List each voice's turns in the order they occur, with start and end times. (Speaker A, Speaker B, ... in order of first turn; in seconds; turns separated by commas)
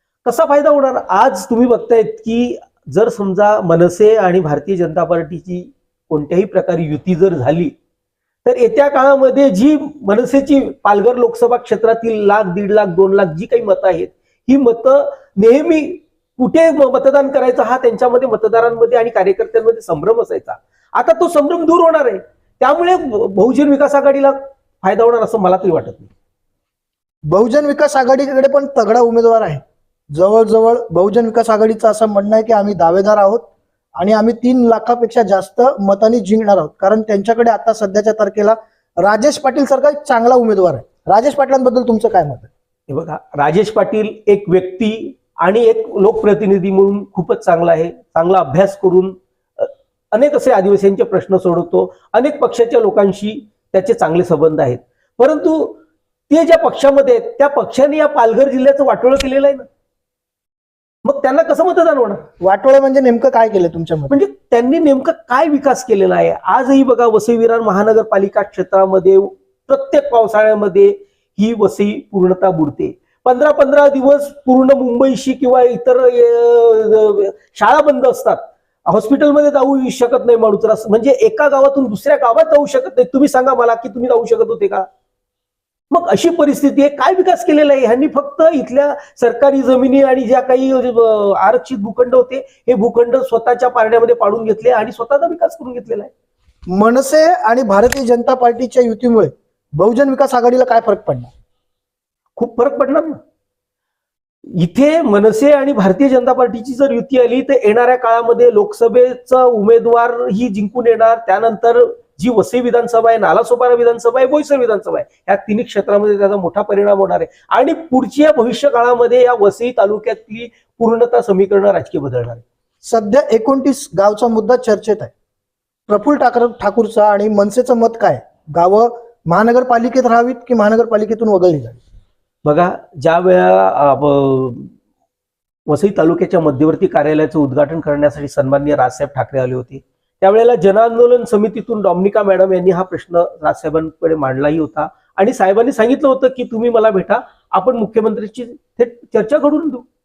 Speaker A: 0.2-7.7, Speaker A: 8.4-26.1, Speaker B: 27.3-42.5, Speaker A: 42.9-55.8, Speaker A: 56.3-59.6, Speaker A: 61.0-62.2, Speaker B: 62.4-64.1, Speaker A: 64.1-84.8, Speaker A: 85.9-96.1, Speaker B: 96.7-101.3, Speaker A: 102.4-103.2, Speaker A: 104.5-122.4, Speaker B: 122.8-125.1, Speaker B: 125.9-131.8, Speaker A: 132.4-134.7, Speaker A: 135.7-149.8